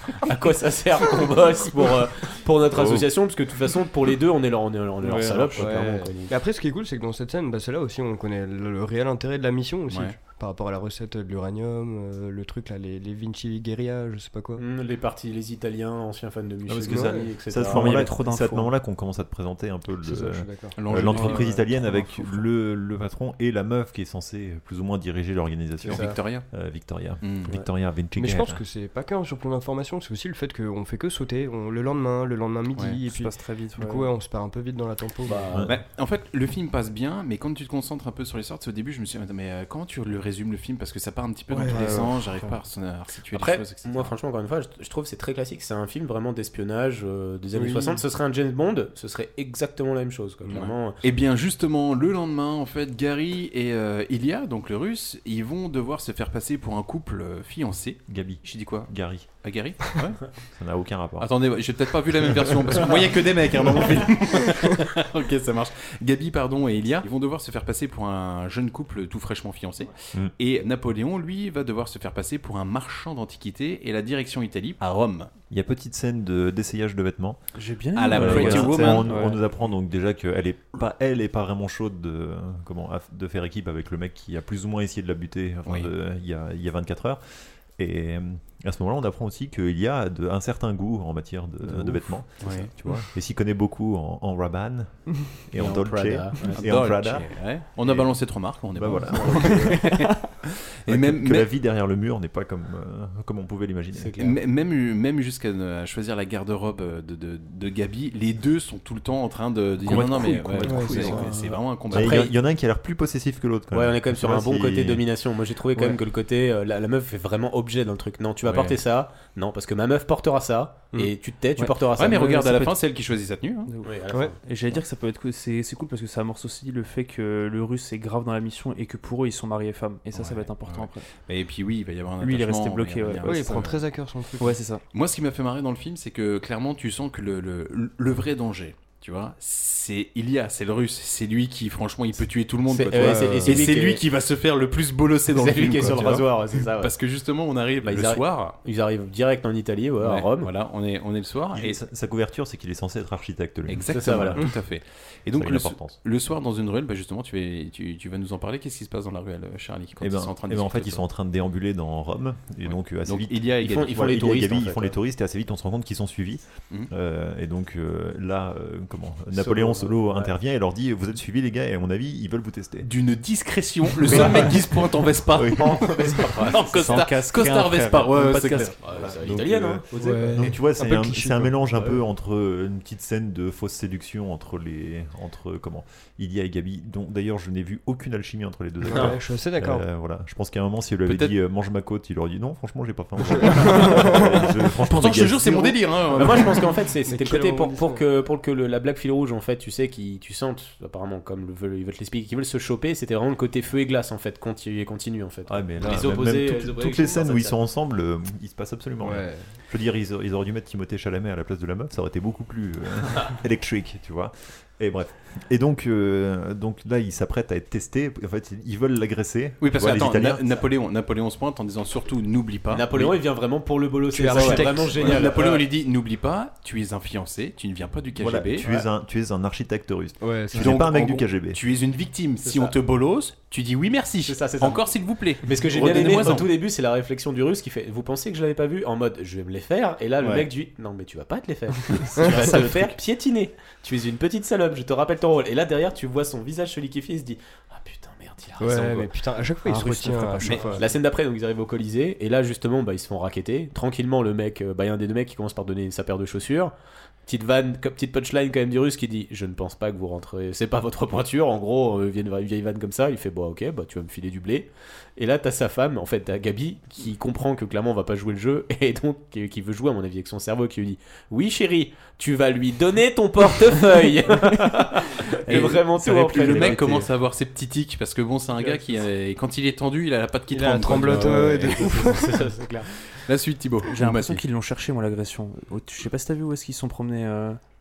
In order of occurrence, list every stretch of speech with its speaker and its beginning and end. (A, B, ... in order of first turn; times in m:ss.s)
0:00.2-0:06.4 A
0:05.0-0:06.0 B
0:05.6-0:14.6 C
0:09.9-0:10.2 D
0:14.6-0:18.1 A
0:16.6-0:28.6 E
0:16.9-0:17.3 C
0:17.6-0:18.7 B
0:20.0-0:21.5 C
0:20.8-0:22.2 D
0:21.0-0:21.4 B
0:25.9-0:26.4 D
0:25.9-0:26.2 A
0:27.2-0:27.5 D
0:28.1-0:35.5 C
0:33.0-0:34.1 B
0:35.2-0:35.7 A
0:35.5-0:35.8 E
0:35.6-0:44.1 D
0:41.5-0:42.1 C
0:41.5-0:42.6 B
0:43.3-0:51.0 A
0:47.5-0:48.0 C
0:50.5-1:00.3 D
0:58.1-0:59.3 E
1:00.5-1:01.5 E
1:01.2-1:15.3 D
1:02.3-1:02.9 E
1:15.5-1:17.4 E
1:17.6-1:19.4 B
1:17.9-1:19.3 D
1:18.1-1:27.2 E
1:27.8-1:40.1 E
1:32.4-1:32.7 D
1:35.5-1:36.6 A
1:36.5-1:41.5 D
1:39.1-1:39.7 A
1:40.9-1:44.2 E
1:44.0-1:44.4 A
1:44.2-1:52.3 D
1:49.9-1:51.3 B
1:50.6-1:52.3 A
1:50.6-1:51.2 C
1:51.9-1:55.0 E
1:53.7-2:02.7 A
1:58.4-1:58.8 D
2:01.6-2:02.7 B
2:02.0-2:03.7 D
2:03.6-2:11.0 B
2:03.8-2:04.4 A
2:10.1-2:13.8 D
2:12.2-2:13.6 B
2:13.2-2:14.6 C
2:14.4-2:14.8 B
2:14.9-2:28.6 D
2:22.6-2:24.0 A
2:23.0-2:23.6 C
2:23.0-2:23.3 E
2:25.3-2:26.9 A
2:27.8-2:30.5 A
2:30.0-2:31.8 D
2:31.5-2:34.5 E
2:33.7-2:41.0 D
2:33.9-2:34.5 A
2:35.4-2:36.0 E
2:40.0-2:52.9 E
2:42.6-2:44.0 D
2:43.6-2:44.9 A
2:49.3-2:50.3 A
2:52.8-2:58.8 D
2:54.0-2:54.7 A
2:55.3-2:55.8 E
2:55.5-2:57.2 A
2:56.7-2:58.7 B
2:58.4-3:00.5 A
2:58.9-3:16.1 E
2:59.9-3:01.9 C
3:08.8-3:09.8 C
3:08.9-3:09.2 A
3:11.0-3:11.3 D
3:13.3-3:14.2 C
3:13.5-3:14.2 D
3:14.8-3:16.7 D
3:16.1-3:27.6 A
3:17.0-3:18.0 C
3:25.5-3:40.4 E
3:29.0-3:29.4 C
3:39.6-3:43.1 D
3:39.8-3:40.3 A
3:42.7-3:45.6 A
3:44.1-3:45.3 C
3:44.3-3:48.7 D
3:48.2-3:51.6 E
3:50.2-3:50.8 C
3:50.5-3:56.5 D
3:52.4-3:52.7 A
3:54.2-3:54.9 A
3:55.4-4:09.2 A
4:02.2-4:02.9 D
4:08.6-4:10.9 C
4:09.6-4:10.8 B
4:10.4-4:10.8 D
4:10.8-4:16.7 A
4:17.2-4:37.1 A
4:35.5-4:42.1 D
4:35.5-4:37.0 B
4:40.5-4:42.5 C
4:40.8-4:42.9 A
4:43.2-4:44.4 D
4:43.9-4:47.6 B